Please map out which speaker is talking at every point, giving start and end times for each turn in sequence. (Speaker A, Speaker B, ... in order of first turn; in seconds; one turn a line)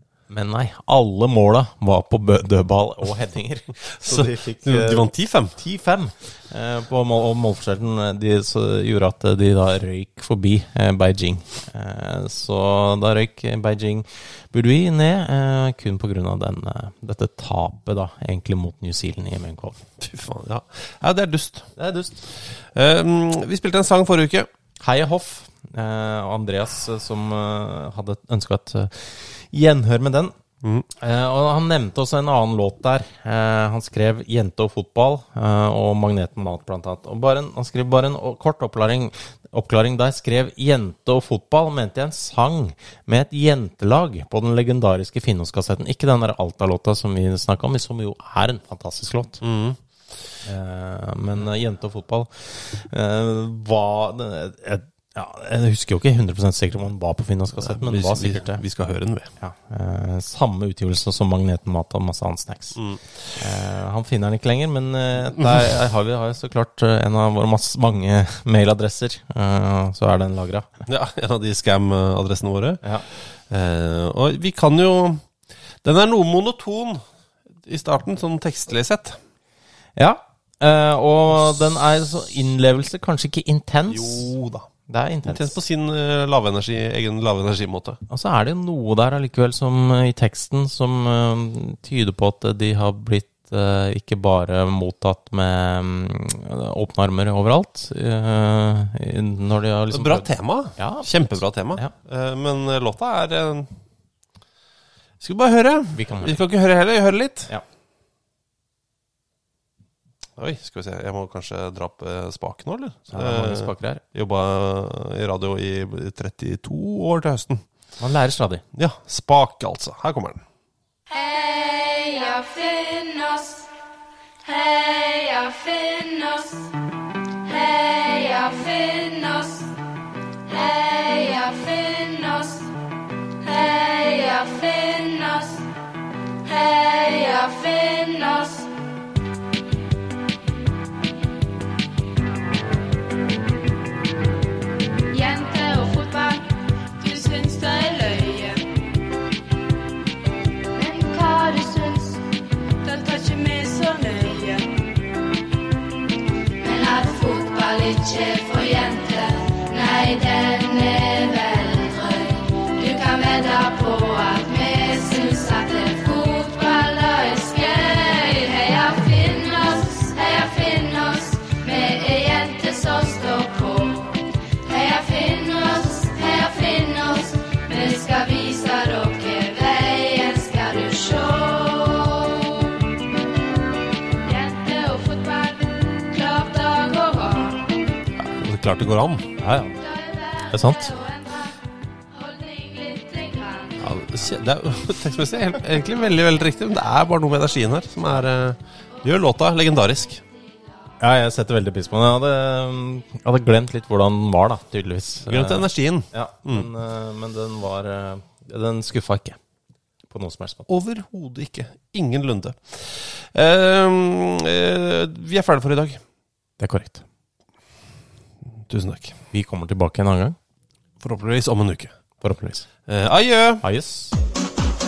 Speaker A: 0.3-19.8
Speaker B: 3.9-5.6
Speaker B: 20.0-21.7
Speaker A: 21.8-22.2
Speaker B: 22.3-24.5
Speaker A: 24.8-30.3
Speaker B: 30.6-30.9
Speaker A: 31.0-49.4
Speaker B: 49.4-49.8
Speaker A: 50.4-58.6
Speaker B: 57.6-59.3
Speaker A: 59.4-62.8
Speaker B: 62.7-63.1
Speaker A: 63.4-70.7
Speaker B: 70.8-75.2
Speaker B: 75.8-77.0
Speaker B: 77.6-79.2
Speaker A: 80.0-84.3
Speaker B: 83.9-84.7
Speaker A: 84.9-85.5
Speaker B: 85.2-88.0
Speaker A: 88.1-101.9
Speaker B: 99.9-103.7
Speaker B: 105.2-107.5
Speaker A: 105.9-106.4
Speaker B: 110.4-117.6
Speaker A: 113.1-114.0
Speaker A: 118.0-118.6
Speaker B: 118.7-120.4
Speaker C: 121.1-123.7
Speaker C: 124.4-126.7
Speaker C: 127.4-129.7
Speaker C: 130.5-132.7
Speaker C: 133.4-135.7
Speaker C: 136.4-138.7
Speaker C: 145.1-148.6
Speaker C: 150.7-152.2
Speaker C: 152.8-154.7
Speaker C: 156.6-182.7
Speaker C: 184.2-187.8
Speaker B: 188.2-189.3
Speaker A: 189.4-189.8
Speaker C: 189.8-191.6
Speaker A: 190.5-191.0
Speaker C: 192.1-193.9
Speaker B: 193.8-200.2
Speaker A: 201.0-209.4
Speaker B: 205.2-206.7
Speaker A: 210.1-210.7
Speaker B: 210.7-216.0
Speaker A: 216.6-217.0
Speaker B: 218.7-219.2
Speaker A: 219.3-220.3
Speaker B: 221.0-221.9
Speaker A: 222.2-222.7
Speaker B: 222.9-223.7
Speaker A: 223.6-224.2